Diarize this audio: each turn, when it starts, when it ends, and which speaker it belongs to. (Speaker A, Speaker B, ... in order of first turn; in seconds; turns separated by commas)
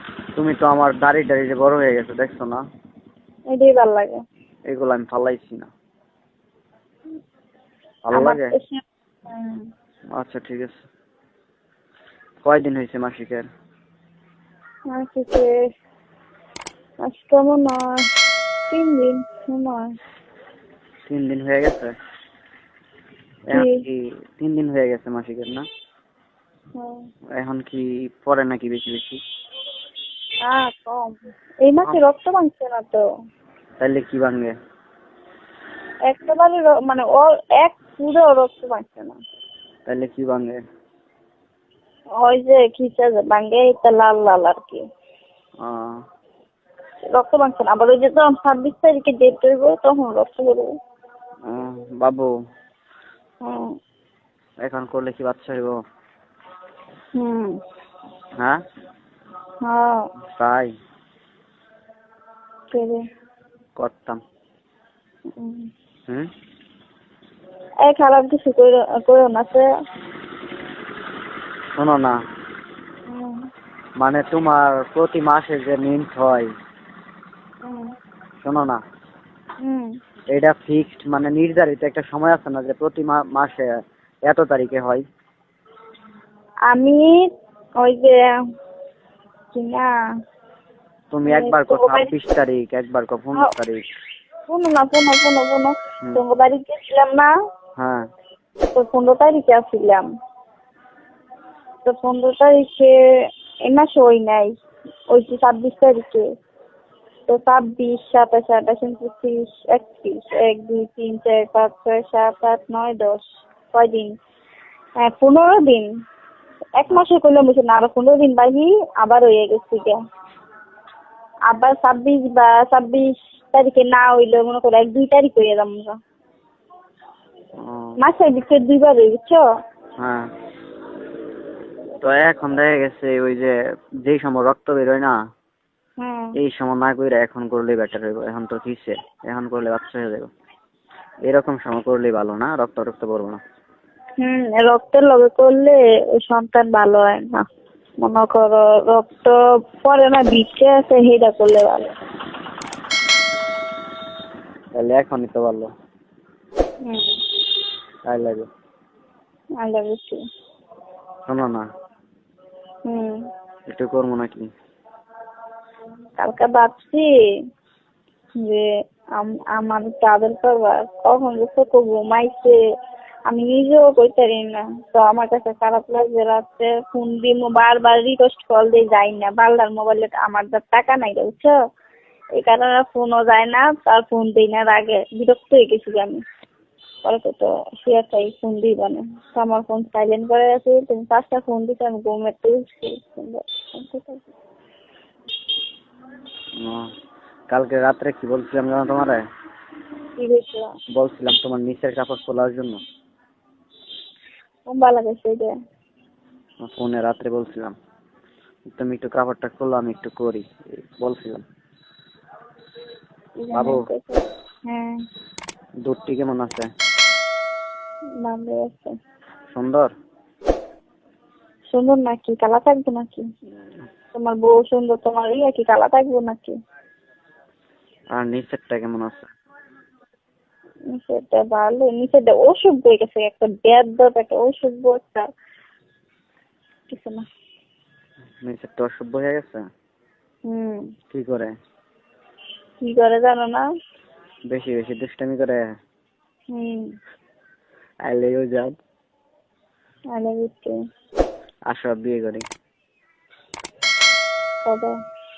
Speaker A: 0.3-2.6, Speaker B: 3.5-4.2, Speaker A: 4.7-5.7, Speaker A: 8.1-8.5, Speaker B: 8.1-9.7, Speaker A: 10.1-10.8, Speaker A: 12.4-13.4, Speaker B: 14.9-15.5, Speaker B: 17.0-18.0, Speaker B: 18.7-19.9, Speaker A: 21.1-21.9, Speaker A: 23.5-25.6, Speaker B: 23.5-23.8, Speaker B: 26.8-27.1, Speaker A: 27.3-29.2, Speaker B: 30.4-33.0, Speaker A: 33.8-34.5, Speaker B: 36.1-39.1, Speaker A: 39.9-40.6, Speaker B: 42.2-44.8, Speaker A: 45.6-46.0, Speaker B: 47.1-50.7, Speaker A: 51.5-52.3, Speaker B: 53.4-53.8, Speaker A: 54.6-55.8, Speaker B: 57.2-57.6, Speaker B: 59.6-60.0, Speaker A: 60.3-60.7, Speaker B: 62.7-63.0, Speaker A: 63.8-64.2, Speaker B: 65.3-65.7, Speaker B: 67.8-69.7, Speaker A: 71.8-72.2, Speaker B: 73.1-73.4, Speaker A: 74.0-76.5, Speaker B: 77.6-77.9, Speaker A: 78.4-78.8, Speaker B: 79.6-79.9, Speaker A: 80.3-83.7, Speaker A: 84.2-85.0, Speaker B: 86.7-87.2, Speaker B: 87.8-88.2, Speaker B: 89.5-89.9, Speaker A: 91.1-93.8, Speaker B: 91.2-92.1, Speaker B: 94.5-97.3, Speaker B: 98.7-100.1, Speaker B: 101.8-103.0, Speaker B: 103.6-104.5, Speaker B: 105.1-106.2, Speaker B: 107.3-114.1, Speaker B: 115.0-115.9, Speaker B: 116.8-120.0, Speaker B: 121.5-126.0, Speaker A: 127.6-128.0, Speaker B: 128.0-129.4, Speaker A: 130.0-130.3, Speaker A: 132.0-135.1, Speaker B: 136.0-136.3, Speaker A: 136.3-140.3, Speaker A: 141.2-143.4, Speaker B: 144.2-147.4, Speaker B: 148.0-151.9, Speaker A: 154.7-155.7, Speaker B: 156.8-157.1, Speaker A: 158.1-158.5, Speaker B: 159.6-160.2, Speaker A: 161.3-161.7, Speaker B: 162.9-163.2, Speaker A: 163.7-164.5, Speaker B: 166.2-167.1, Speaker B: 168.4-172.6, Speaker B: 173.3-181.5, Speaker B: 182.3-186.2, Speaker B: 187.0-194.3, Speaker A: 196.6-196.9, Speaker A: 197.5-199.2, Speaker B: 200.2-200.7, Speaker A: 200.9-202.8, Speaker B: 204.7-205.5, Speaker A: 206.6-207.7, Speaker A: 208.7-211.4, Speaker B: 213.4-215.0, Speaker A: 213.5-213.8, Speaker A: 215.8-216.7, Speaker B: 218.2-218.9, Speaker A: 219.5-219.9, Speaker B: 221.7-223.2, Speaker B: 224.1-226.6, Speaker A: 228.2-229.3, Speaker B: 230.9-235.2, Speaker B: 236.9-237.2, Speaker A: 238.4-239.6, Speaker B: 240.5-240.9, Speaker A: 241.1-241.5, Speaker B: 242.8-243.6, Speaker A: 244.5-245.6, Speaker B: 246.5-246.9, Speaker A: 248.1-248.7, Speaker B: 250.1-250.7, Speaker A: 251.7-252.4, Speaker B: 254.6-254.9